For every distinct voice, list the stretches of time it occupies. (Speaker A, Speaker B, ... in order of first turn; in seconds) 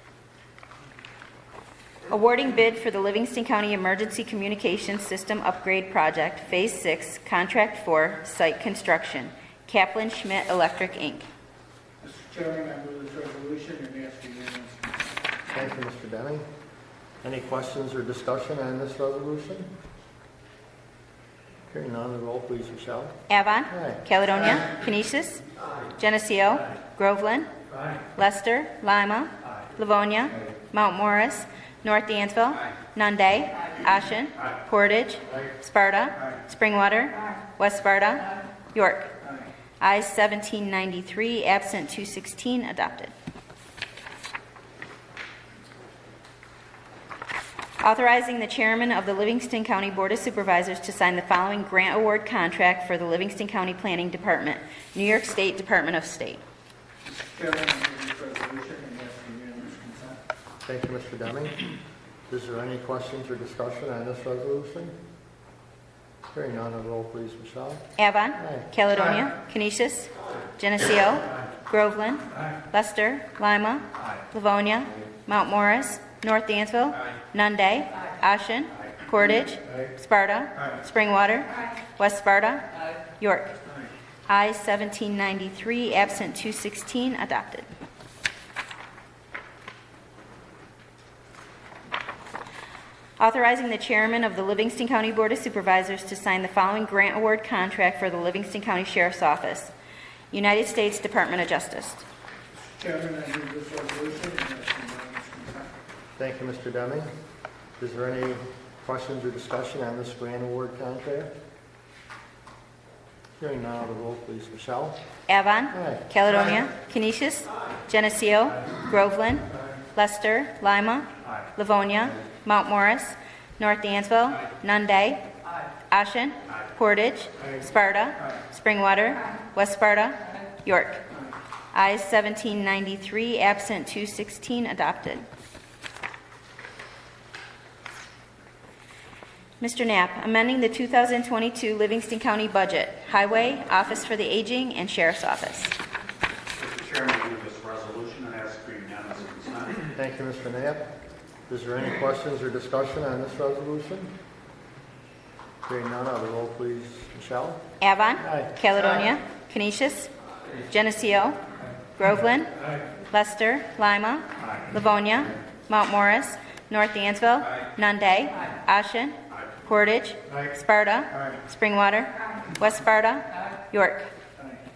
Speaker A: 2.1-11.3, 23.3-25.4, 26.0-27.5, 28.1-39.1, 39.8-43.1, 47.8-56.4, 68.0-83.5, 84.3-87.7, 93.2-99.7, 100.3-102.0, 115.3-125.2, 125.9-131.0, 131.7-135.3, 139.6-145.7, 157.8-160.1, 160.7-161.4, 162.0-162.6, 163.1-174.1
Speaker B: 12.0-15.1, 57.1-60.2, 102.7-105.8
Speaker C: 15.5-16.4, 17.2-19.7, 21.7-23.2, 23.7-24.0, 60.7-61.6, 62.3-64.9, 66.3-67.8, 68.4-68.7, 106.2-107.1, 107.8-111.3, 113.4-115.0, 115.7-116.1, 149.9-150.9, 151.5-154.1, 155.7-157.6, 158.2-158.5
Speaker D: 146.6-149.9